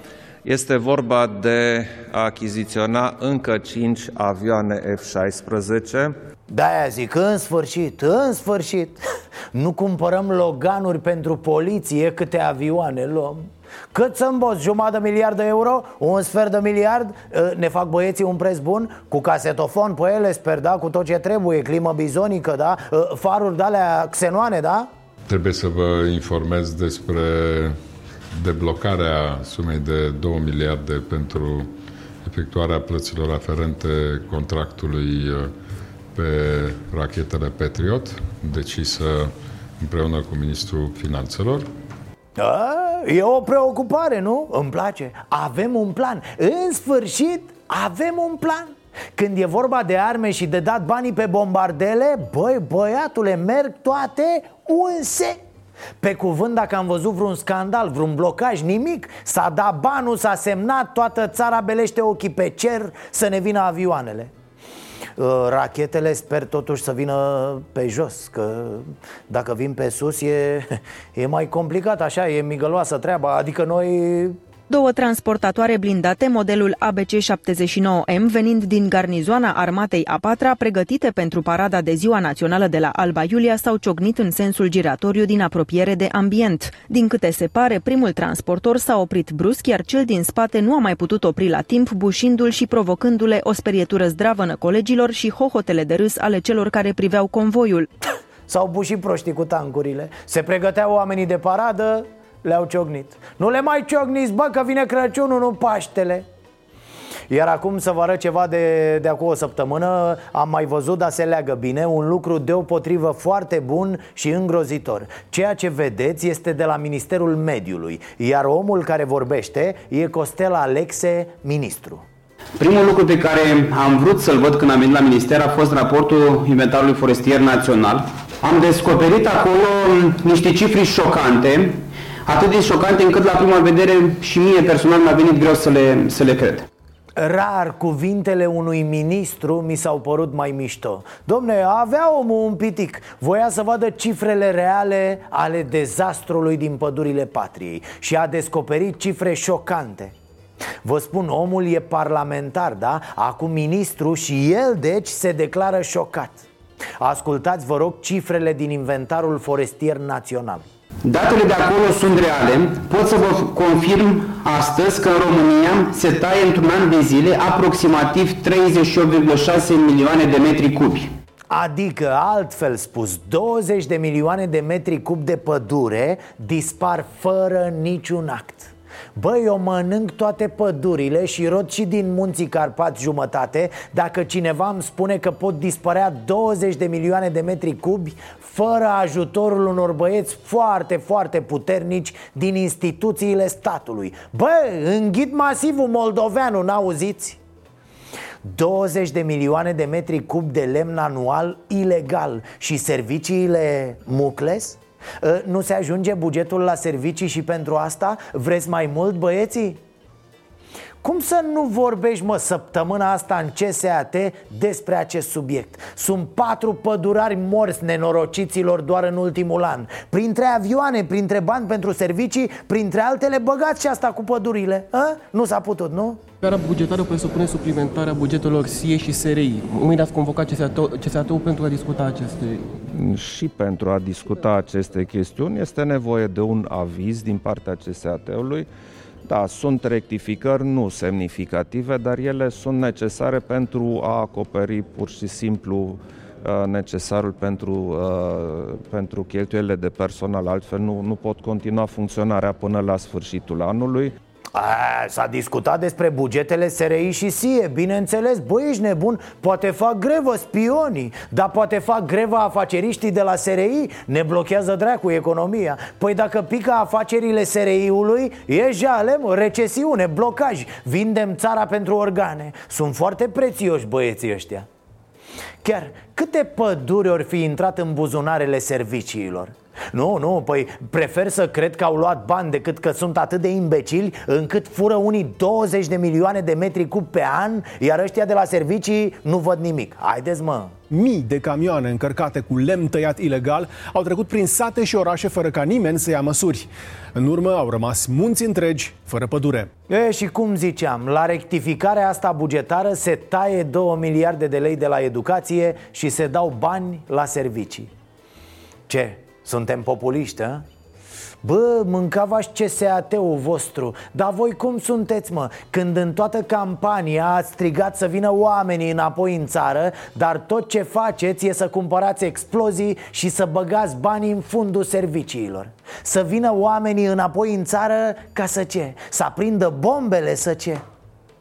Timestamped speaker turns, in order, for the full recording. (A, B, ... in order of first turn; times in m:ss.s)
0:00.4-0:06.1 A
0:06.5-0:24.9 B
0:25.3-0:27.8 C
0:28.3-0:31.7 C
0:32.2-0:35.5 C
0:36.1-0:41.7 C
0:42.4-0:55.4 B
0:56.0-1:04.3 B
1:05.2-1:14.4 B
1:14.7-1:37.9 D
1:38.5-1:46.3 B
1:47.3-2:02.0 B
2:02.6-2:16.6 E
2:17.2-2:30.2 B
2:30.8-2:36.5 B
2:37.0-2:40.6 B
2:41.0-2:51.1 E
2:51.5-3:17.4 B
3:18.4-3:29.8 B
3:31.0-3:46.2 B
3:46.4-3:52.7 F
3:52.8-3:58.7 A
3:59.3-4:14.2 A
4:14.5-4:34.7 B
4:35.6-4:50.8 B
4:50.9-4:59.7 G
4:59.9-5:07.9 B
5:08.9-5:10.6 B
5:11.4-5:30.8 B